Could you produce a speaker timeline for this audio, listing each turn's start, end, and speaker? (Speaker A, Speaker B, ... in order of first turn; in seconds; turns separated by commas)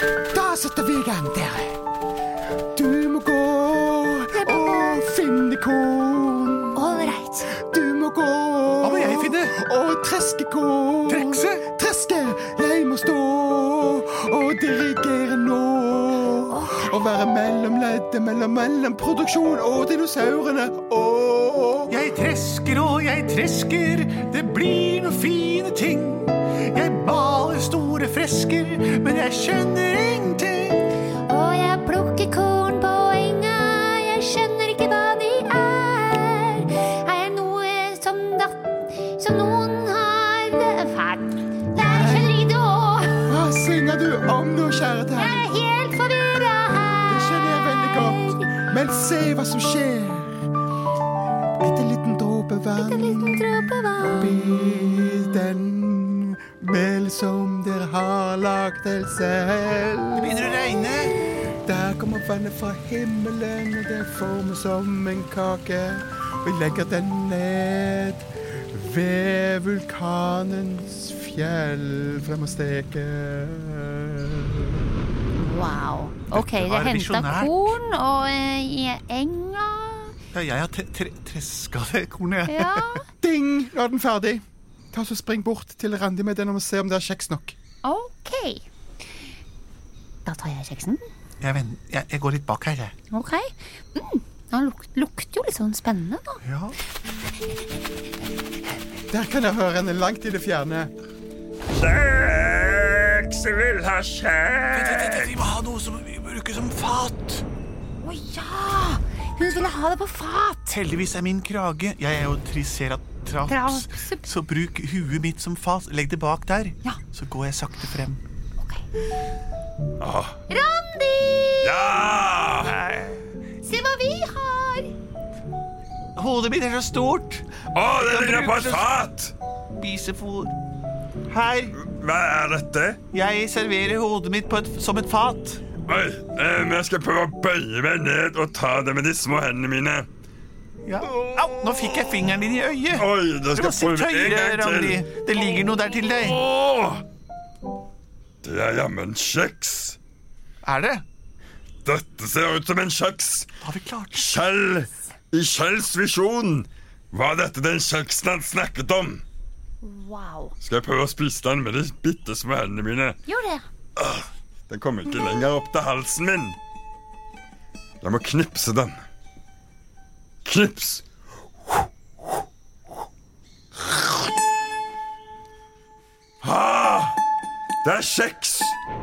Speaker A: 0.3-1.8, Speaker A: 2.7-6.8, Speaker B: 4.3-4.7, Speaker B: 6.7-7.5, Speaker A: 7.5-21.9, Speaker C: 8.8-9.5, Speaker C: 11.1-11.6, Speaker B: 16.5-16.9, Speaker C: 21.9-30.9, Speaker B: 31.3-43.2, Speaker A: 41.7-42.4, Speaker A: 43.2-45.5, Speaker B: 45.2-48.5, Speaker A: 47.1-50.4, Speaker A: 51.6-60.4, Speaker B: 52.8-54.3, Speaker C: 60.1-61.1, Speaker A: 61.6-74.8, Speaker B: 75.3-80.1, Speaker C: 76.3-77.8, Speaker C: 80.3-83.0, Speaker B: 82.5-83.0, Speaker A: 83.2-87.5, Speaker B: 87.8-88.6, Speaker B: 90.2-91.0, Speaker C: 91.4-92.9, Speaker B: 93.1-96.4, Speaker C: 96.4-96.8, Speaker A: 99.1-100.9, Speaker D: 101.7-105.3, Speaker C: 104.7-107.5, Speaker B: 108.0-110.8, Speaker C: 110.7-118.2, Speaker B: 113.5-114.2, Speaker D: 120.0-120.4, Speaker B: 120.5-121.9, Speaker D: 121.6-122.7, Speaker C: 122.6-123.2, Speaker B: 123.6-124.9, Speaker C: 126.2-128.9, Speaker D: 127.7-129.3, Speaker C: 129.7-130.6, Speaker C: 131.3-131.7, Speaker D: 131.7-133.0, Speaker C: 133.1-135.6, Speaker D: 135.8-140.1, Speaker C: 140.8-146.4, Speaker D: 142.9-145.0, Speaker D: 146.2-147.0, Speaker D: 148.4-150.0, Speaker C: 150.6-151.0, Speaker D: 151.8-153.5, Speaker C: 153.6-154.2, Speaker D: 154.1-159.2, Speaker B: 159.8-160.5, Speaker D: 160.6-163.2, Speaker B: 163.2-163.6, Speaker D: 164.0-166.6, Speaker D: 168.0-169.0, Speaker D: 170.4-171.0, Speaker D: 176.4-177.2, Speaker D: 177.8-178.7